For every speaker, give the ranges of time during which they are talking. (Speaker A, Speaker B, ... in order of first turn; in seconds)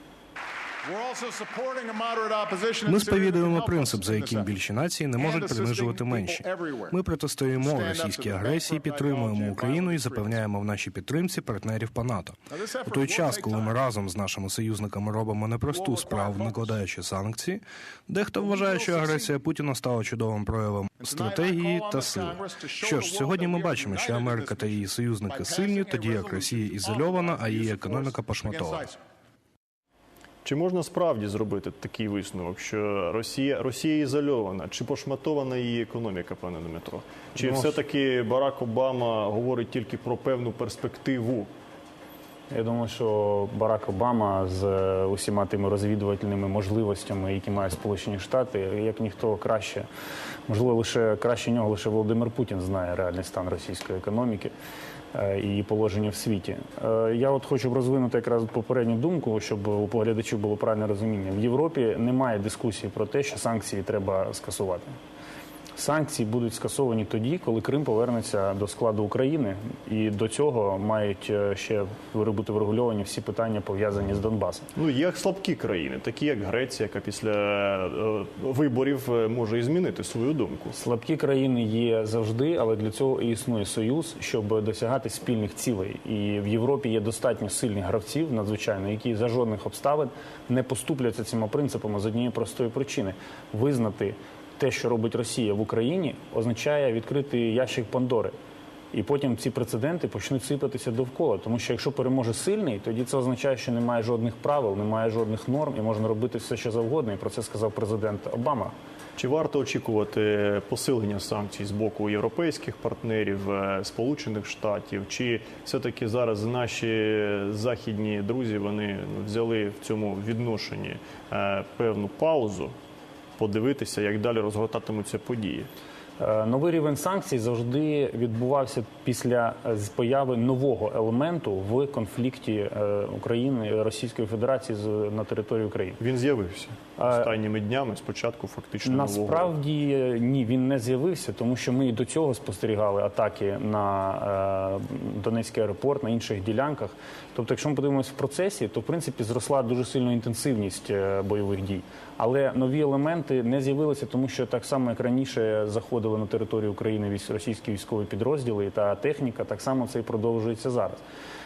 Speaker A: 0.8-29.0
Speaker B: 30.4-41.5, 74.8-80.8, 109.2-122.7, 123.4-125.7, 136.0-139.5
Speaker C: 37.4-37.8, 42.5-49.9, 50.5-54.5, 55.1-65.0, 65.8-74.7, 80.8-98.3, 98.9-108.7, 126.2-136.0, 137.0-137.3, 138.8-161.0